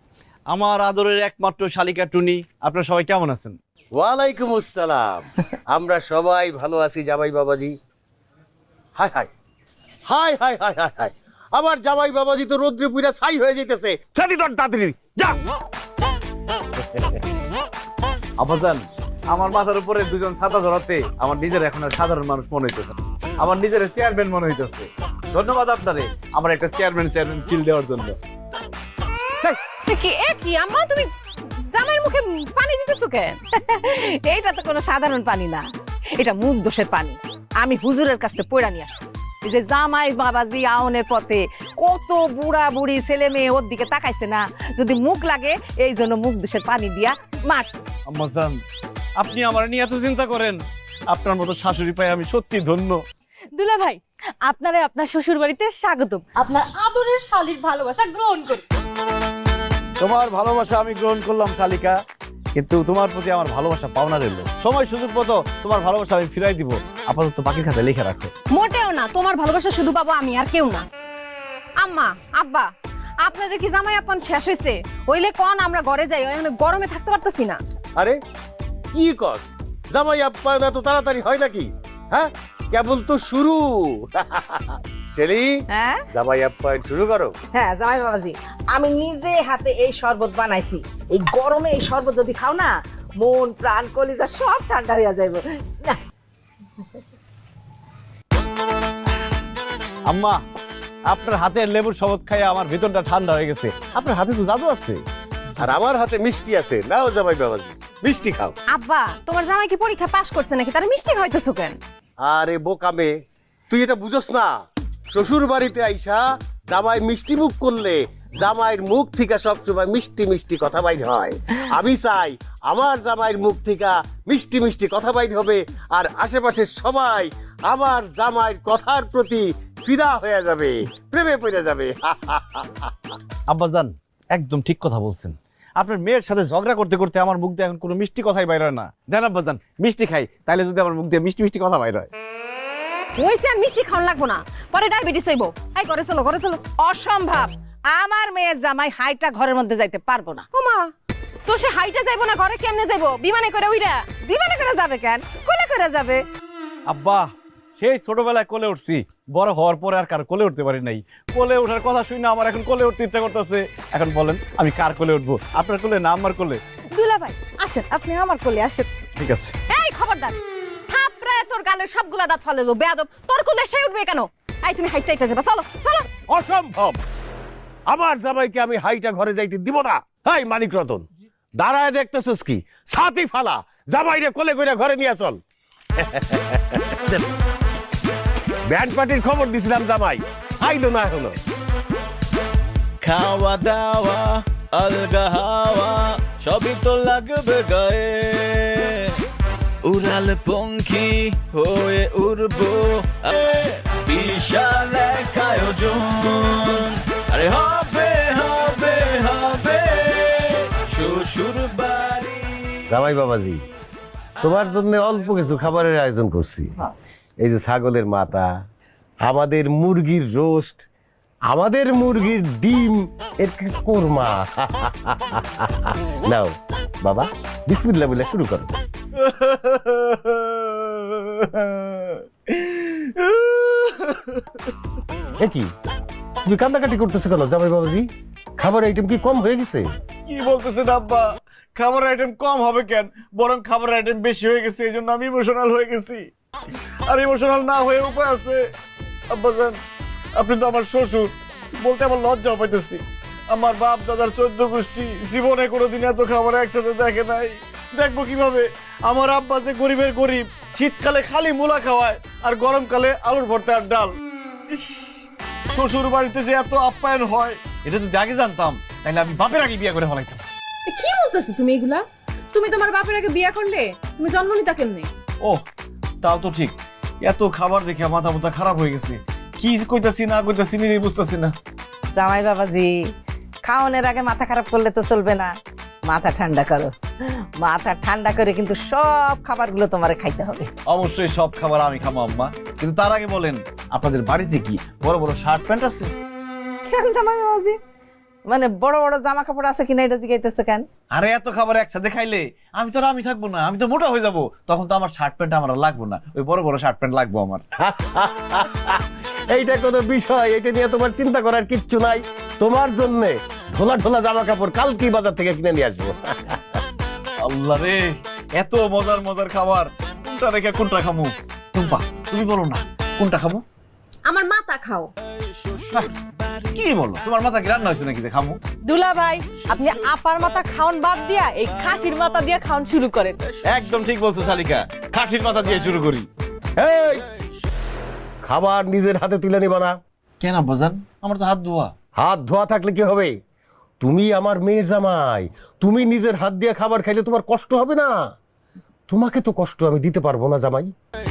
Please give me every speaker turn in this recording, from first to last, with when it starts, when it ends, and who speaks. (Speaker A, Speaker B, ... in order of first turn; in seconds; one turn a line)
Speaker A: 0.5-3.6
Speaker B: 3.9-7.7
Speaker B: 9.0-9.3
Speaker B: 10.1-15.4
Speaker B: 16.8-17.2
Speaker A: 18.4-28.2
Speaker C: 29.9-31.1
Speaker C: 31.7-33.4
Speaker D: 33.5-47.8
Speaker A: 48.1-48.6
Speaker A: 49.2-53.0
Speaker E: 53.5-58.6
Speaker D: 54.5-56.2
Speaker A: 60.0-62.0
Speaker A: 62.5-68.3
Speaker C: 68.5-70.8
Speaker C: 71.8-72.7
Speaker C: 73.2-77.6
Speaker B: 78.9-85.5
Speaker D: 85.7-86.0
Speaker B: 86.1-87.3
Speaker D: 87.5-96.0
Speaker A: 100.0-100.4
Speaker A: 101.1-105.0
Speaker B: 105.6-108.5
Speaker C: 108.7-111.8
Speaker B: 112.2-113.1
Speaker B: 113.7-114.5
Speaker B: 115.1-132.9
Speaker A: 133.5-142.1
Speaker C: 143.2-146.6
Speaker D: 146.8-150.4
Speaker C: 150.5-150.9
Speaker C: 151.4-154.1
Speaker D: 154.2-156.2
Speaker A: 156.9-166.6
Speaker D: 166.9-168.9
Speaker A: 169.2-169.5
Speaker C: 169.7-170.3
Speaker C: 170.9-176.1
Speaker B: 176.3-177.0
Speaker B: 177.9-181.1
Speaker B: 181.6-185.4
Speaker B: 186.0-187.2
Speaker B: 188.7-191.4
Speaker F: 193.0-199.2
Speaker F: 199.8-212.8
Speaker B: 212.9-213.6
Speaker B: 214.4-216.9
Speaker B: 217.4-218.5
Speaker B: 219.2-220.8
Speaker B: 221.5-226.5
Speaker B: 227.0-228.7
Speaker A: 229.2-234.4
Speaker B: 235.4-235.7
Speaker B: 236.4-239.9
Speaker A: 240.2-246.3
Speaker A: 247.1-248.7
Speaker A: 249.3-249.8
Speaker A: 250.3-264.1
Speaker A: 264.7-270.4
Speaker C: 270.9-275.1
Speaker A: 276.2-281.5
Speaker D: 282.1-283.1
Speaker D: 283.6-290.7
Speaker A: 290.9-296.1
Speaker D: 296.8-297.8
Speaker D: 298.4-300.9
Speaker A: 301.1-307.6
Speaker B: 307.8-316.6
Speaker A: 317.4-323.6
Speaker C: 324.3-325.1
Speaker A: 326.7-328.6
Speaker E: 328.9-333.4
Speaker D: 330.9-331.4
Speaker A: 333.6-336.3
Speaker B: 336.8-337.2
Speaker B: 338.4-340.0
Speaker A: 340.4-341.9
Speaker B: 342.2-343.3
Speaker B: 344.0-348.3
Speaker B: 349.1-350.9